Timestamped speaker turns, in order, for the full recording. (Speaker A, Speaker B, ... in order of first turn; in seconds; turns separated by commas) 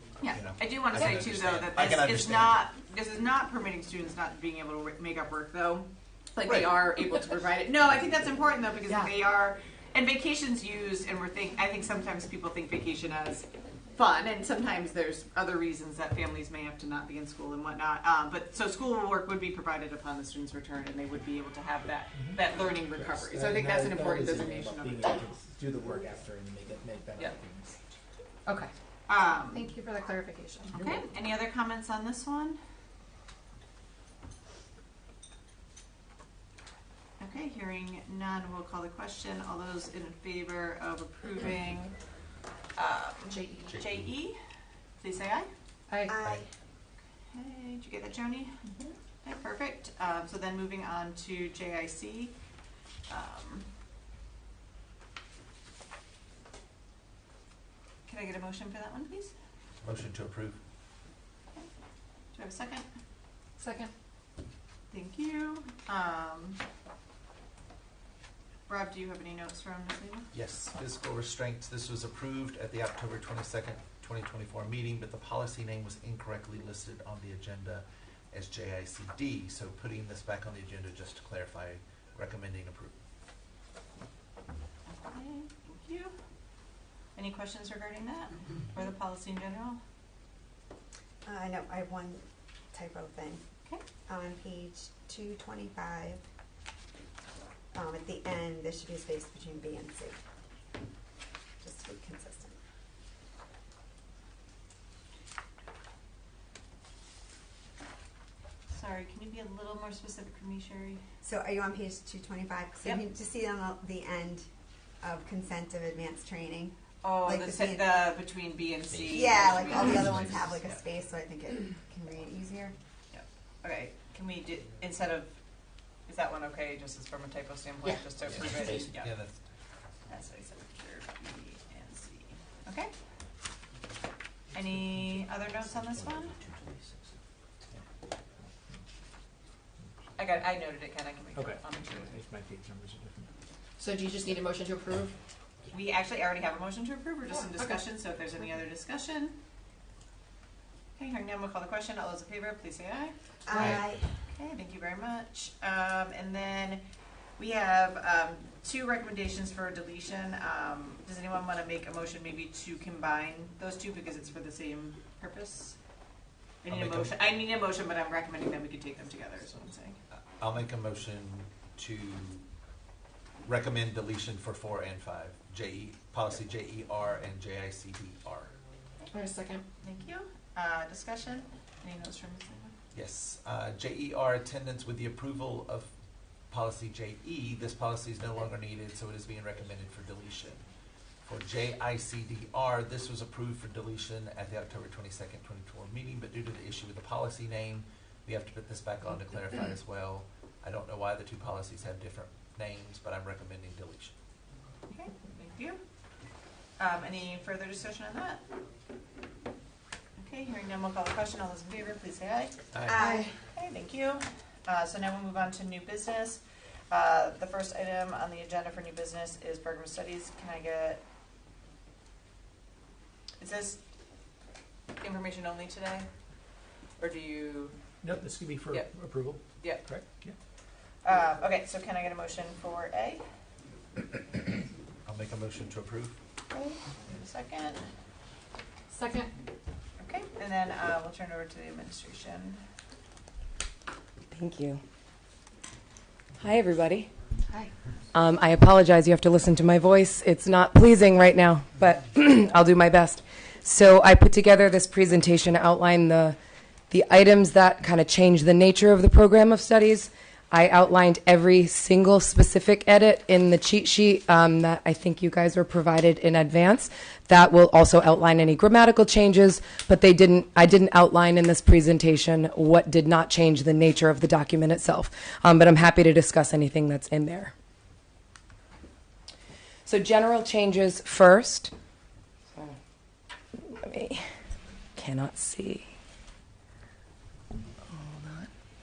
Speaker A: 0.2-25.2, Speaker B: 0.3-2.6, Speaker B: 6.4-6.7, Speaker C: 22.1-27.8, Speaker D: 28.4-28.7, Speaker A: 29.1-29.7, Speaker D: 29.4-31.0, Speaker A: 30.7-32.6, Speaker A: 37.2-41.9, Speaker A: 42.8-44.4, Speaker B: 43.7-44.0, Speaker A: 45.0-45.5, Speaker D: 45.9-46.2, Speaker E: 46.1-46.5, Speaker A: 47.3-48.5, Speaker A: 49.2-52.3, Speaker A: 53.1-53.7, Speaker A: 58.1-59.3, Speaker B: 59.8-60.6, Speaker A: 62.3-62.9, Speaker D: 63.6-63.9, Speaker A: 64.9-66.6, Speaker A: 68.7-70.3, Speaker B: 70.3-83.0, Speaker A: 84.9-86.1, Speaker A: 87.1-89.8, Speaker E: 91.2-93.4, Speaker E: 94.0-96.2, Speaker E: 97.7-100.2, Speaker E: 101.6-102.6, Speaker A: 108.7-111.0, Speaker E: 111.2-114.5, Speaker E: 115.0-118.1, Speaker A: 117.0-120.8, Speaker E: 119.1-122.7, Speaker A: 123.1-125.4, Speaker A: 126.1-129.1, Speaker C: 128.2-129.0, Speaker B: 129.0-129.3, Speaker A: 130.1-132.9, Speaker A: 134.5-136.3, Speaker C: 136.2-136.9, Speaker C: 138.4-138.7, Speaker A: 140.2-142.2, Speaker C: 141.3-143.3, Speaker D: 143.8-145.1, Speaker A: 145.7-149.4, Speaker D: 147.3-147.8, Speaker A: 151.0-156.9, Speaker E: 153.4-154.1, Speaker B: 153.6-153.8, Speaker A: 157.4-165.8, Speaker A: 166.6-170.0, Speaker B: 166.7-167.1, Speaker B: 170.4-172.4, Speaker B: 173.4-178.5, Speaker D: 179.1-179.6, Speaker A: 179.8-182.7, Speaker B: 182.9-185.9, Speaker B: 186.5-190.6, Speaker B: 191.2-204.1, Speaker A: 204.9-205.8, Speaker A: 206.8-208.4, Speaker A: 210.2-221.0, Speaker B: 212.7-213.1, Speaker E: 212.9-213.3, Speaker A: 223.4-223.8, Speaker A: 225.0-226.1, Speaker A: 227.0-227.7, Speaker C: 228.0-230.3, Speaker A: 229.6-229.9, Speaker A: 231.0-233.2, Speaker B: 235.0-236.2, Speaker A: 236.5-237.8, Speaker D: 238.9-239.3, Speaker A: 240.0-242.6, Speaker F: 244.3-244.8, Speaker F: 246.4-247.1, Speaker A: 247.5-247.7, Speaker F: 248.1-256.4, Speaker F: 256.9-277.5, Speaker F: 279.9-281.7, Speaker F: 283.7-284.2, Speaker F: 284.9-285.8, Speaker F: 287.9-288.5